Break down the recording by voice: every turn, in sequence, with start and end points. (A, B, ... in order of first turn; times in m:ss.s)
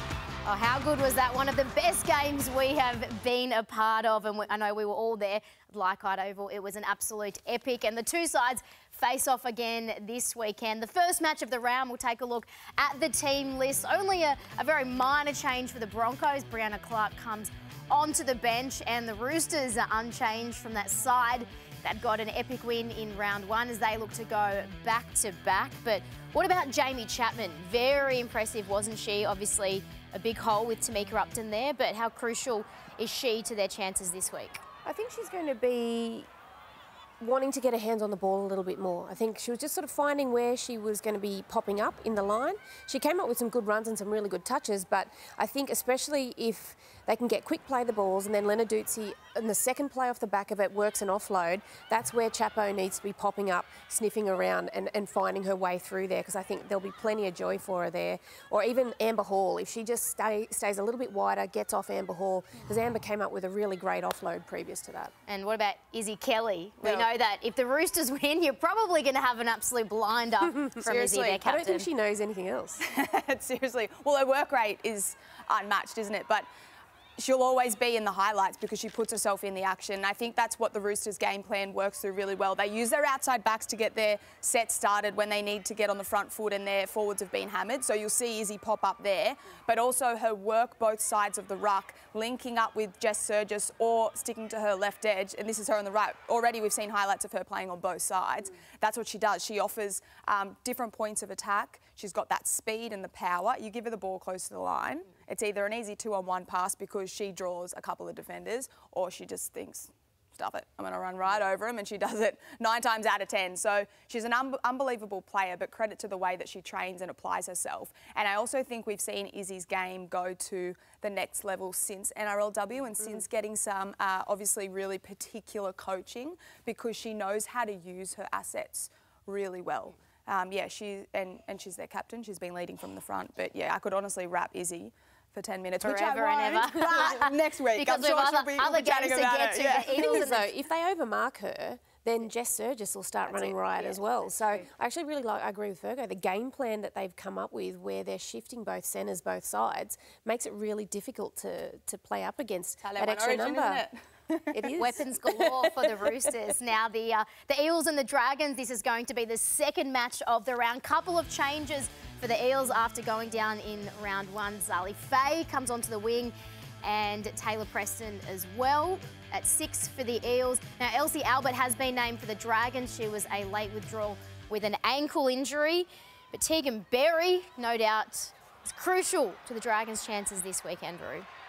0:00.4-0:34.6 A
0:34.8-0:36.3 B
0:37.2-1:05.1 B
1:05.3-1:11.9 A
1:06.8-1:07.1 C
1:10.4-1:12.8 B
1:12.8-1:16.5 C
1:17.2-2:20.3 C
2:15.8-2:20.5 A
2:19.9-2:33.8 B
2:23.3-2:23.7 C
2:23.8-2:24.6 A
2:32.8-2:36.2 C
2:34.5-2:35.0 B
2:34.8-3:01.3 A